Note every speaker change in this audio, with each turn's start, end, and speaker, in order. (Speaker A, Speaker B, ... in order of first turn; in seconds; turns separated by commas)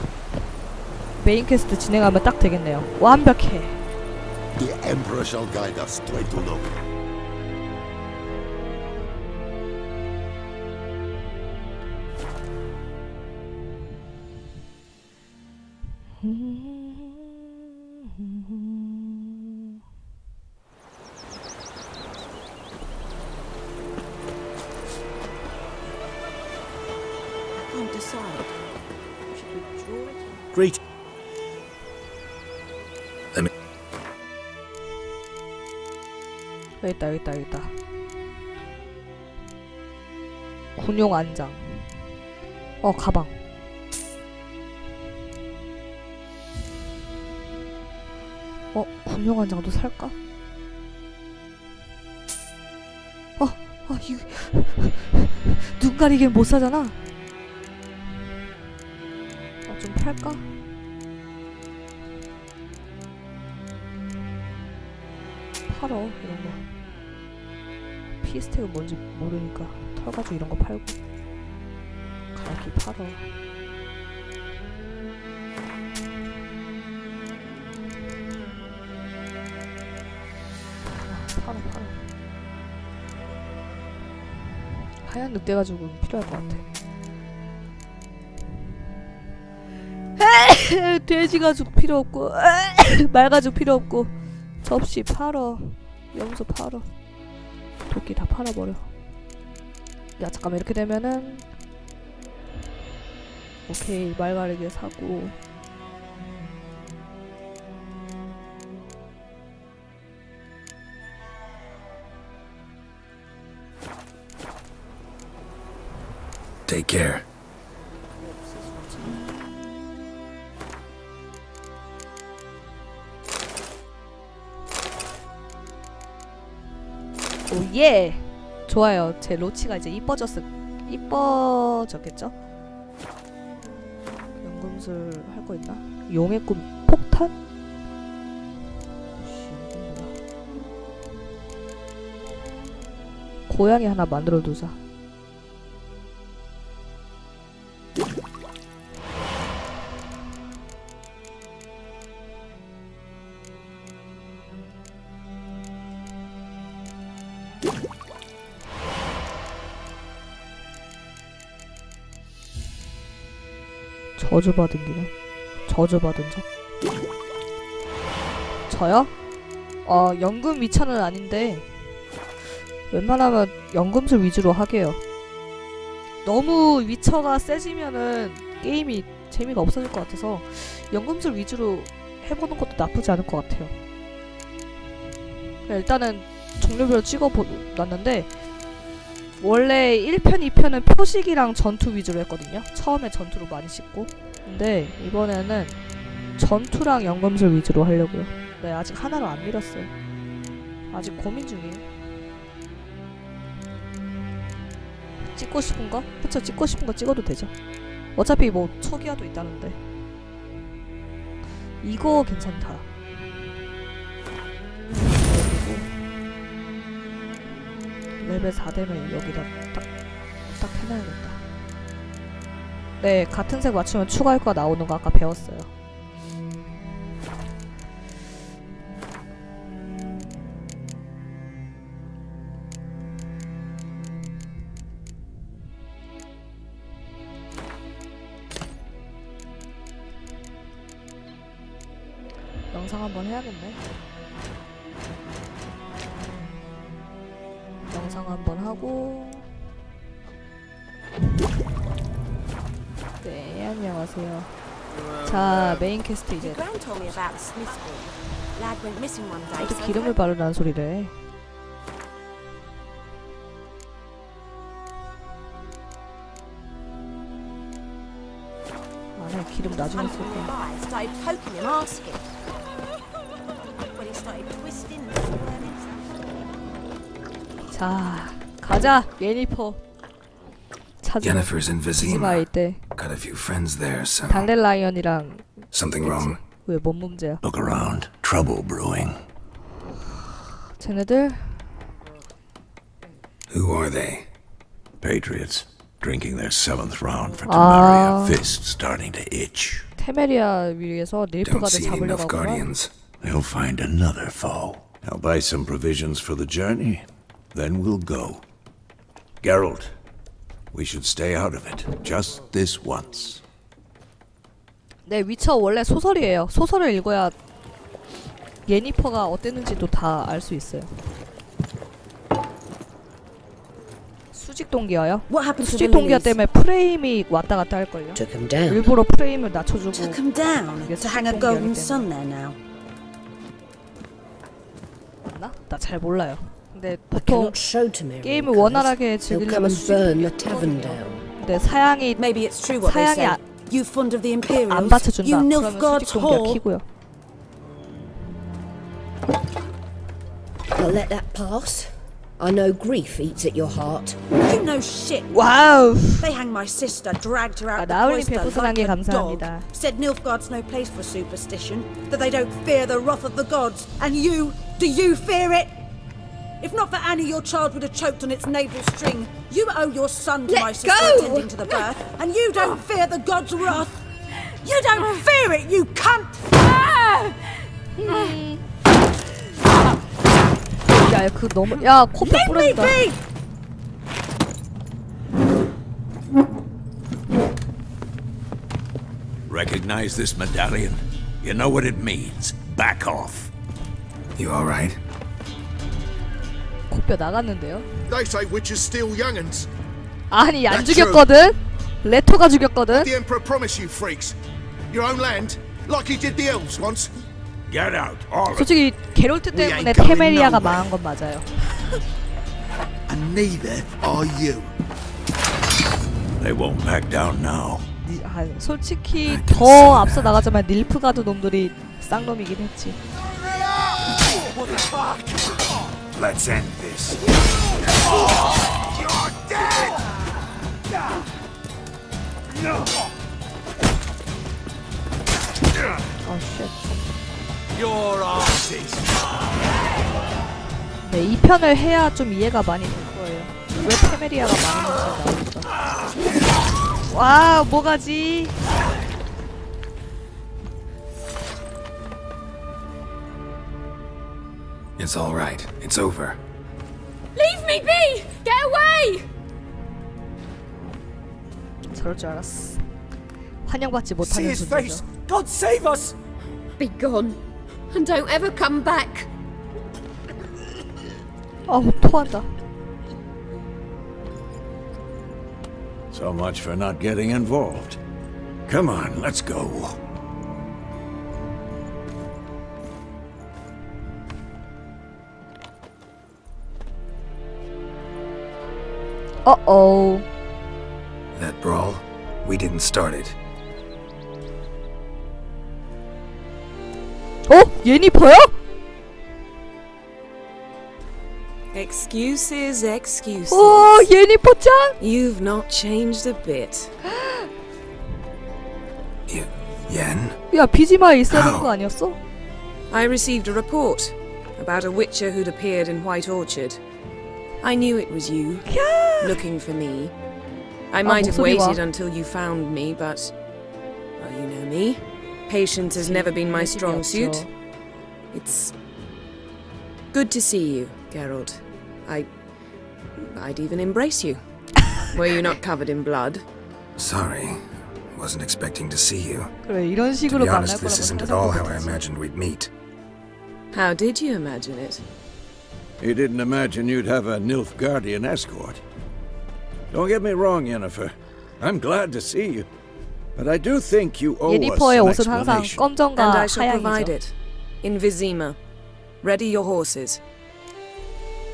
Speaker A: 1.2-3.8, Speaker B: 4.6-6.8, Speaker A: 16.2-19.4, Speaker C: 27.9-28.4, Speaker C: 29.4-30.3, Speaker A: 36.8-37.8, Speaker A: 40.8-41.9, Speaker A: 42.8-43.3, Speaker A: 48.7-50.1, Speaker A: 53.4-57.0, Speaker A: 59.7-60.5, Speaker A: 65.7-66.6, Speaker A: 68.2-71.0, Speaker A: 72.3-73.3, Speaker A: 81.0-82.0, Speaker A: 85.0-86.7, Speaker A: 90.2-96.9, Speaker A: 97.9-98.9, Speaker A: 100.2-101.5, Speaker A: 103.7-105.4, Speaker D: 116.7-117.2, Speaker A: 127.5-132.3, Speaker A: 134.4-137.3, Speaker A: 139.2-140.2, Speaker A: 143.5-144.8, Speaker A: 164.2-165.1, Speaker A: 165.7-166.4, Speaker A: 168.7-169.1, Speaker A: 169.8-171.7, Speaker A: 172.9-175.0, Speaker A: 176.2-183.8, Speaker A: 185.7-188.3, Speaker A: 189.4-195.8, Speaker A: 196.4-199.9, Speaker A: 200.9-201.8, Speaker A: 205.3-207.5, Speaker A: 208.2-209.8, Speaker A: 211.8-212.9, Speaker A: 215.1-215.9, Speaker A: 218.2-219.8, Speaker A: 220.5-221.4, Speaker A: 223.0-225.7, Speaker A: 242.7-243.8, Speaker A: 247.8-249.5, Speaker A: 253.2-254.5, Speaker A: 255.2-256.6, Speaker C: 256.4-260.2, Speaker A: 259.6-261.1, Speaker A: 269.1-270.5, Speaker E: 269.8-272.2, Speaker C: 270.0-270.7, Speaker E: 273.9-276.3, Speaker A: 277.7-279.8, Speaker A: 281.0-282.8, Speaker D: 281.2-284.5, Speaker A: 284.3-287.4, Speaker D: 285.7-286.4, Speaker F: 287.4-289.2, Speaker A: 290.8-291.7, Speaker D: 293.5-294.3, Speaker F: 295.0-299.9, Speaker A: 297.5-298.4, Speaker A: 300.0-302.7, Speaker D: 301.4-302.9, Speaker F: 303.2-308.4, Speaker F: 309.4-309.9, Speaker F: 310.7-313.4, Speaker A: 315.1-317.3, Speaker A: 318.7-321.0, Speaker A: 324.3-332.1, Speaker E: 325.3-326.4, Speaker G: 328.1-328.9, Speaker E: 329.9-332.6, Speaker A: 335.3-337.6, Speaker G: 337.1-341.3, Speaker A: 338.2-342.2, Speaker E: 342.2-346.6, Speaker A: 342.8-343.4, Speaker A: 344.7-346.9, Speaker G: 350.7-354.2, Speaker E: 354.4-355.4, Speaker A: 355.3-356.3, Speaker E: 356.2-365.8, Speaker A: 357.8-359.7, Speaker E: 366.6-373.9, Speaker C: 370.5-371.9, Speaker G: 370.7-371.5, Speaker E: 374.6-376.5, Speaker C: 376.6-377.4, Speaker A: 378.0-378.6, Speaker A: 381.0-383.0, Speaker E: 382.2-383.2, Speaker F: 389.5-393.5, Speaker D: 394.4-395.0, Speaker A: 396.9-397.9, Speaker B: 398.1-399.7, Speaker A: 400.3-403.1, Speaker B: 400.7-401.2, Speaker B: 402.9-404.4, Speaker B: 404.9-407.1, Speaker F: 407.7-408.7, Speaker A: 408.5-411.5, Speaker B: 409.5-410.8, Speaker B: 413.1-414.7, Speaker F: 416.4-417.9, Speaker A: 418.1-423.0, Speaker D: 419.2-420.4, Speaker B: 423.5-425.6, Speaker D: 426.1-427.2, Speaker B: 429.1-430.0, Speaker A: 436.2-436.8, Speaker B: 437.7-439.1, Speaker A: 441.0-445.7, Speaker A: 447.1-448.6, Speaker D: 455.0-456.4, Speaker C: 457.4-459.2, Speaker A: 461.9-462.8, Speaker A: 463.6-465.0, Speaker C: 466.8-467.4, Speaker C: 467.9-469.3, Speaker A: 471.7-472.5, Speaker F: 476.1-478.0, Speaker F: 478.7-480.0, Speaker A: 489.4-490.3, Speaker D: 491.3-493.4, Speaker A: 497.5-498.6, Speaker H: 501.7-504.1, Speaker A: 503.5-505.0, Speaker H: 505.0-506.9, Speaker A: 507.1-507.5, Speaker D: 509.3-510.4, Speaker A: 510.5-512.2, Speaker D: 511.3-511.7, Speaker H: 512.9-516.8, Speaker H: 517.6-518.7, Speaker A: 518.7-519.4, Speaker H: 519.2-520.1, Speaker H: 520.9-523.3, Speaker A: 521.0-521.8, Speaker H: 524.2-527.5, Speaker A: 525.9-527.5, Speaker H: 528.3-528.7, Speaker H: 530.1-532.3, Speaker H: 533.2-534.4, Speaker H: 535.0-536.4, Speaker D: 537.0-539.5, Speaker A: 539.7-542.0, Speaker D: 540.3-542.7, Speaker H: 543.7-545.0, Speaker F: 546.0-548.8, Speaker F: 549.9-552.7, Speaker F: 553.4-555.9, Speaker A: 554.5-557.1, Speaker H: 556.2-558.6, Speaker H: 559.2-560.2